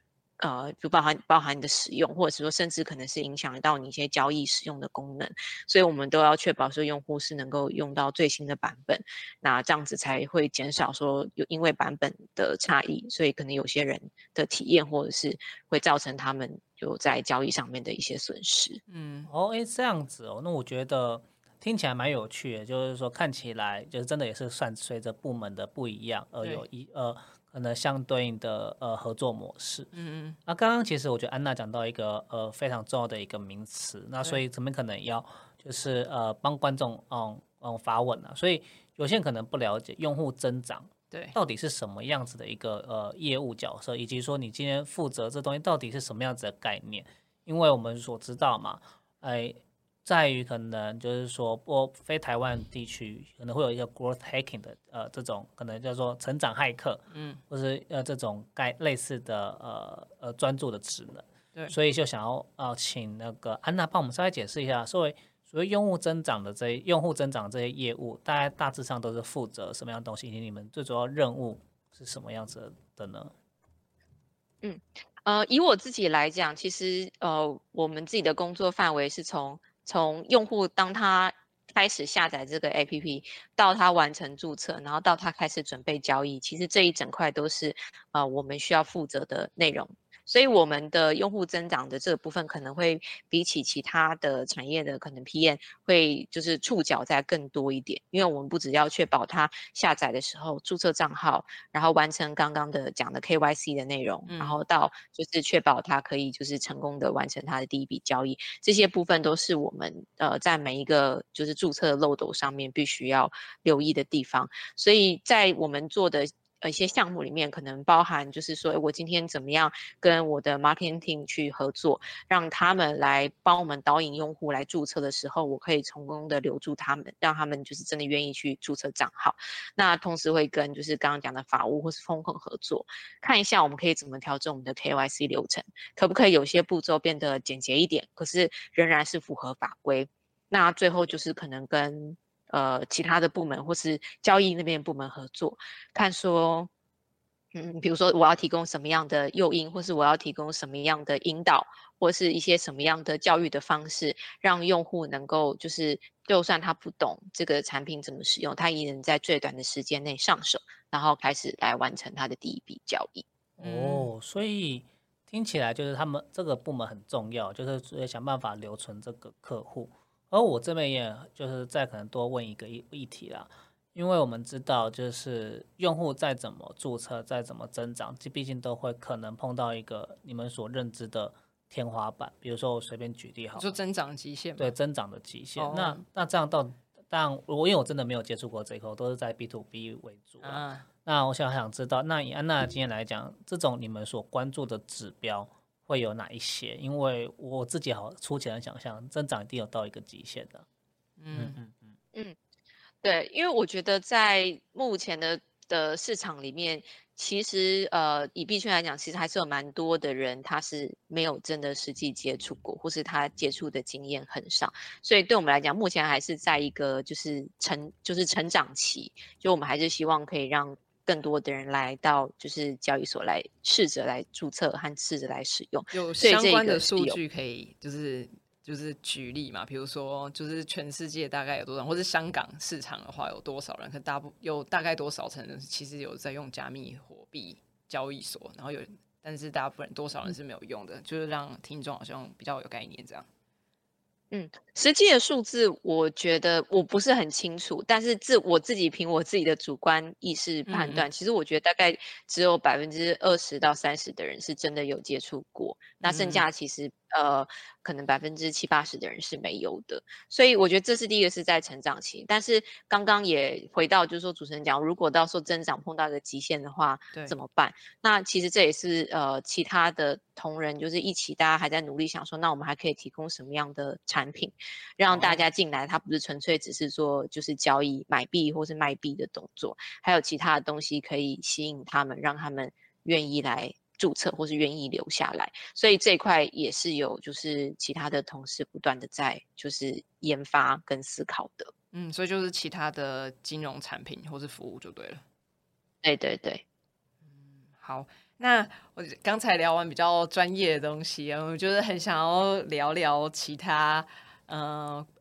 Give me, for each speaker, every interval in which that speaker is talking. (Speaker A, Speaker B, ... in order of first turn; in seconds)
Speaker A: 0.4-18.8, 74.6-146.7, 147.5-163.3, 203.0-227.2, 244.3-291.7, 296.0-296.6
Speaker B: 18.9-19.3, 29.9-30.4, 41.1-41.4, 57.1-57.4, 104.3-104.6, 163.6-164.1, 183.6-184.7, 185.6-186.0, 190.4-190.9, 201.2-201.6, 225.9-243.3, 250.7-251.1, 256.0-256.4, 275.1-275.4, 291.9-295.2, 297.2-305.1
Speaker C: 19.3-29.9, 30.5-73.3, 163.6-183.7, 184.6-200.7, 201.3-201.9